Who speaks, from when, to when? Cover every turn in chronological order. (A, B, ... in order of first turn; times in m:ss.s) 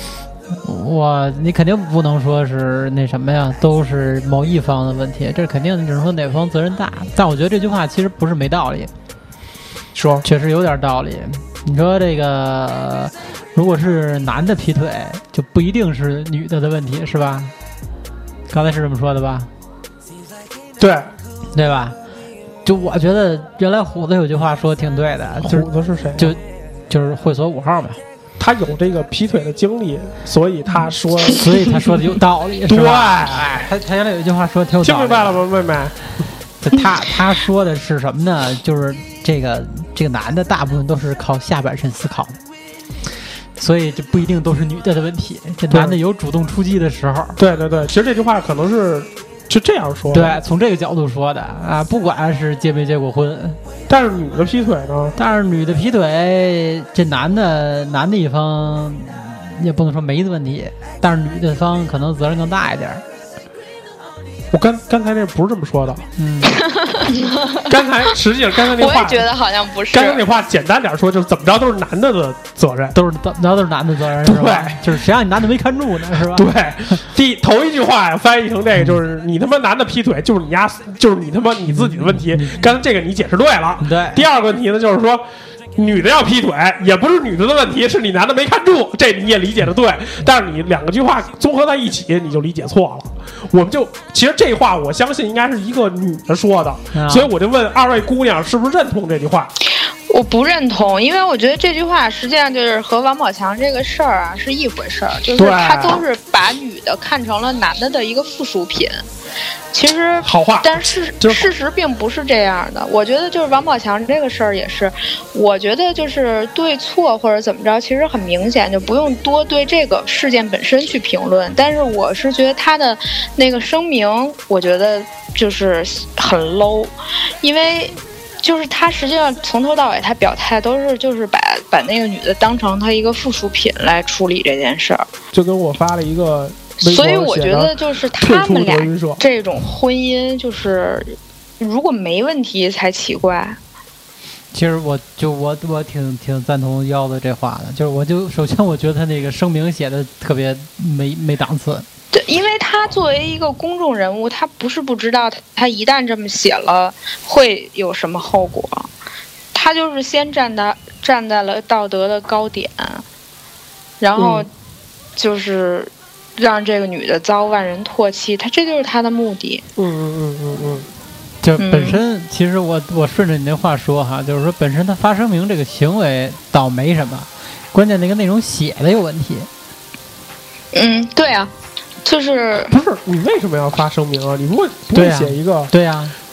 0:00.6-0:08.9 A
0:09.9-0:10.2 B
0:10.2-0:17.5 A
0:18.5-0:19.5 A
0:20.8-0:21.1 B
0:21.5-0:22.0 A
0:22.6-0:28.0 A
0:25.4-0:26.4 B
0:28.4-0:31.6 B
0:31.3-0:35.4 A
0:32.7-0:33.7 B
0:34.8-0:35.9 B
0:36.6-0:42.4 A
0:43.6-0:47.4 A
0:45.7-0:46.0 B
0:47.4-0:50.4 B
0:50.1-0:53.6 A
0:53.9-0:55.1 B
0:55.2-1:03.0 A
1:04.5-1:06.0 B
1:06.2-1:06.6 A
1:06.5-1:07.2 C
1:07.7-1:09.3 B
1:08.7-1:10.2 C
1:09.9-1:13.0 B
1:12.9-1:16.5 A
1:14.2-1:14.8 B
1:16.3-1:39.5 B
1:21.7-1:22.7 A
1:23.8-1:24.2 A
1:36.9-1:37.3 A
1:40.1-1:49.0 C
1:45.4-1:46.0 B
1:49.7-2:15.0 C
1:50.2-1:51.5 B
2:15.3-2:19.2 B
2:16.8-2:23.6 C
2:24.5-2:31.8 A
2:32.1-2:38.9 C
2:39.5-2:43.0 C
2:44.0-2:44.5 C
2:44.2-2:44.4 B
2:45.2-2:49.6 C
2:49.8-2:50.9 B
2:51.4-2:59.5 A
2:51.6-2:52.0 C
3:00.7-3:01.5 C
3:02.0-3:02.7 C
3:02.7-3:05.7 B
3:04.9-3:06.2 A